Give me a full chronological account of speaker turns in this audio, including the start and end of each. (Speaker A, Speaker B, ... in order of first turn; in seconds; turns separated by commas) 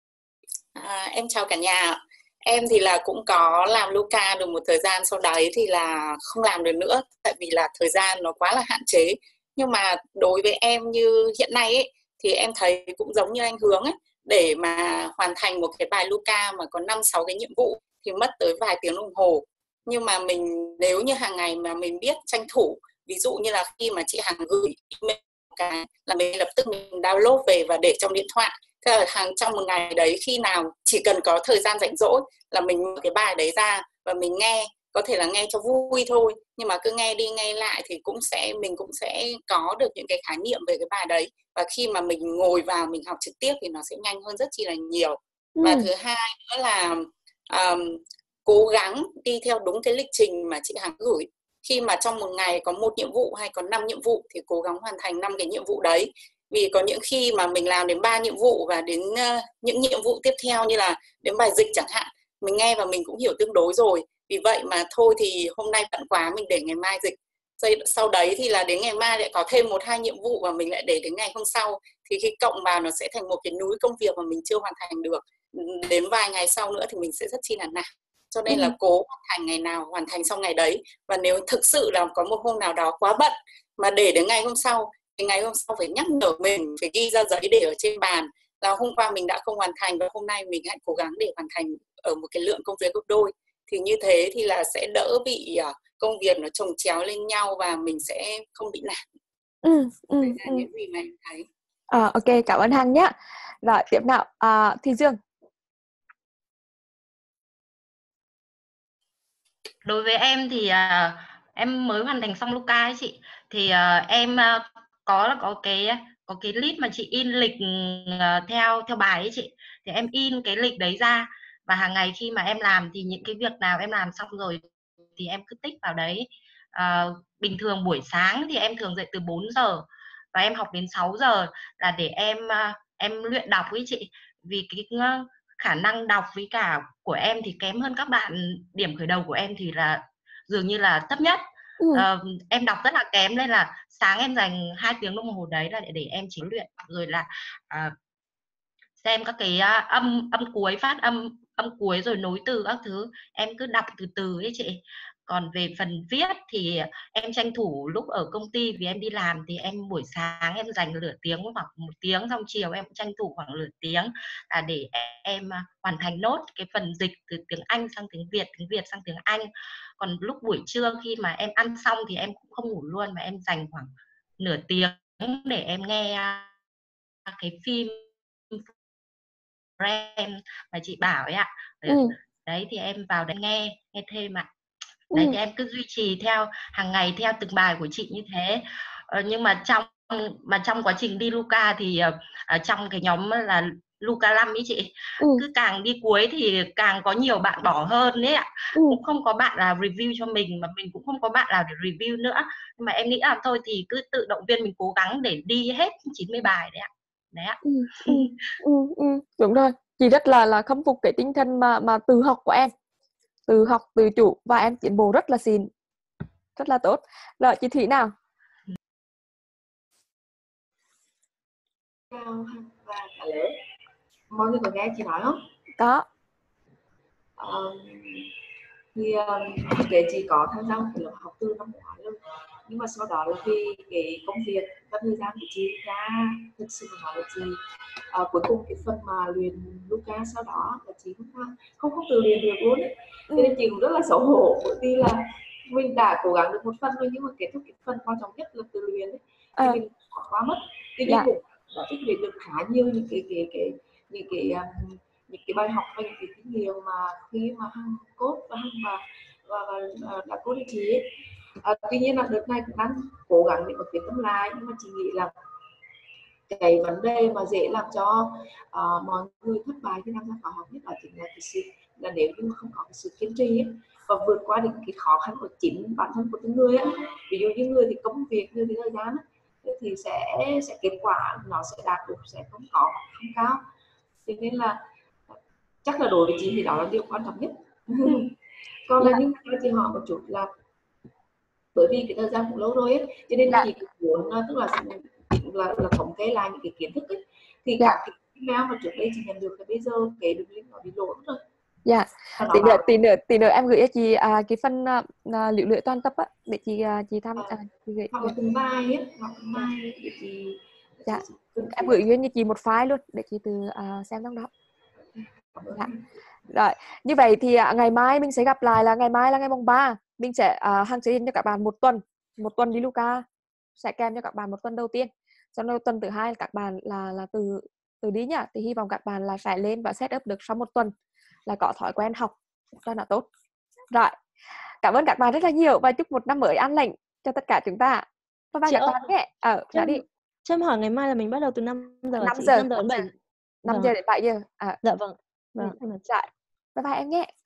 Speaker A: 0.7-99.0, Speaker B: 45.5-45.8, Speaker B: 99.6-100.6, Speaker A: 100.2-101.5, Speaker B: 101.9-105.2, Speaker C: 109.8-124.6, Speaker C: 125.2-141.4, Speaker B: 141.8-142.1, Speaker C: 141.9-147.9, Speaker C: 149.0-176.5, Speaker C: 177.3-178.7, Speaker C: 179.8-184.5, Speaker B: 181.8-182.1, Speaker C: 185.1-208.3, Speaker B: 207.6-212.7, Speaker B: 213.5-215.7, Speaker B: 216.6-218.1, Speaker D: 222.1-223.5, Speaker D: 224.3-225.4, Speaker B: 225.8-226.0, Speaker D: 227.4-228.3, Speaker D: 228.9-237.6, Speaker D: 238.1-261.1, Speaker D: 261.6-265.3, Speaker D: 266.5-283.6, Speaker D: 284.2-284.8, Speaker D: 285.3-288.3, Speaker D: 288.9-290.5, Speaker D: 291.7-301.4, Speaker B: 301.9-308.3, Speaker D: 302.4-302.9, Speaker D: 308.1-312.0, Speaker B: 311.1-314.5, Speaker D: 315.1-316.0, Speaker B: 316.5-323.2, Speaker B: 323.8-330.9, Speaker B: 331.5-333.2, Speaker B: 334.8-340.0, Speaker E: 338.6-339.1, Speaker E: 339.7-343.1, Speaker B: 342.2-343.1, Speaker E: 343.6-343.9, Speaker B: 343.7-344.8, Speaker E: 344.8-346.1, Speaker B: 345.6-347.3